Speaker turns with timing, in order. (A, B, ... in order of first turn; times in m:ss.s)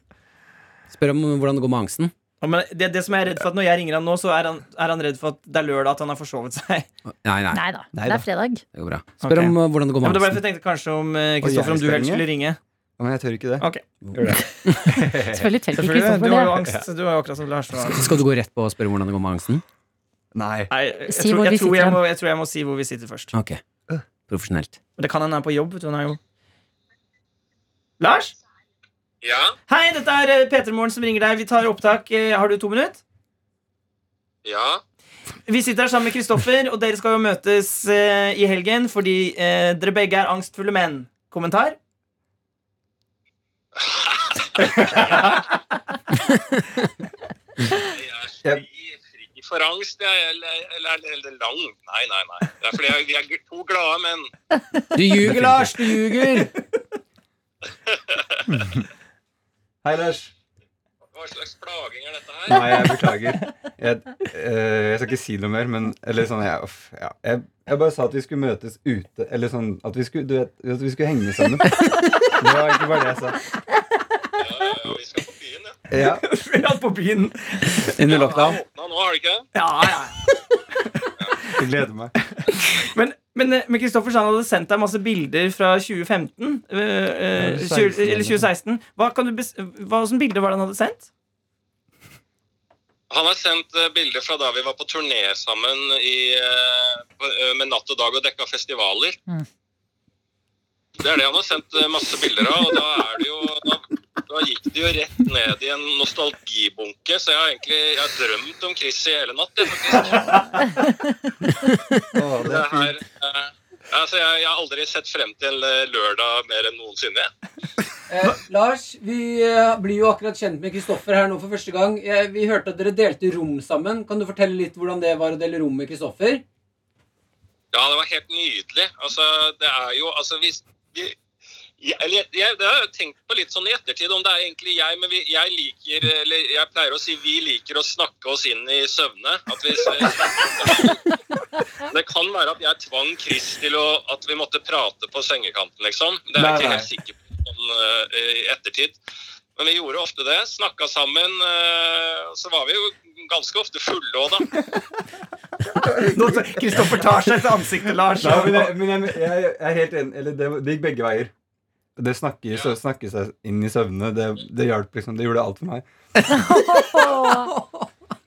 0:00.9-0:02.1 A
0:02.4-0:06.9 B
0:07.2-0:07.6 A
0:07.5-0:08.6 C
0:07.9-0:08.2 D
0:08.7-0:10.4 A
0:09.2-0:12.6 B
0:11.4-0:12.3 D
0:13.0-0:15.5 D
0:15.1-0:16.6 C
0:15.7-0:18.1 B
0:16.6-0:16.8 D
0:17.8-0:19.6 A
0:20.3-0:20.7 D
0:20.7-0:23.3 B
0:21.1-0:22.0 C
0:23.3-0:23.6 A
0:24.3-0:24.8 A
0:25.0-0:26.2 B
0:28.0-0:28.3 B
0:29.2-0:29.5 E
0:29.7-0:33.0 B
0:34.4-0:34.8 E
0:35.5-0:41.8 B
0:43.8-0:45.4 E
0:44.6-0:45.2 D
0:47.7-0:54.3 E
0:55.0-0:56.5 A
0:55.2-0:55.8 D
0:58.1-0:58.4 E
0:58.5-0:58.8 D
0:59.8-1:00.3 D
1:01.1-1:02.9 E
1:02.5-1:13.4 D
1:14.4-1:15.8 E
1:15.9-1:16.2 D
1:16.0-1:17.9 B
1:17.9-1:18.6 D
1:18.0-1:19.5 E
1:19.6-1:20.8 B
1:21.5-1:22.1 D
1:22.7-1:31.1 B
1:27.4-1:28.5 D
1:33.1-1:39.2 E
1:41.0-1:50.6 E
1:52.2-1:52.9 D
1:52.4-1:57.3 E
1:58.1-2:06.4 A
2:07.7-2:11.2 E
2:11.8-2:21.2 E
2:21.8-2:29.0 E
2:26.4-2:26.9 D
2:29.6-2:34.5 E
2:35.9-2:38.8 B
2:38.2-2:41.3 D
2:42.0-2:45.9 D
2:46.3-2:47.9 A
2:46.3-2:47.5 C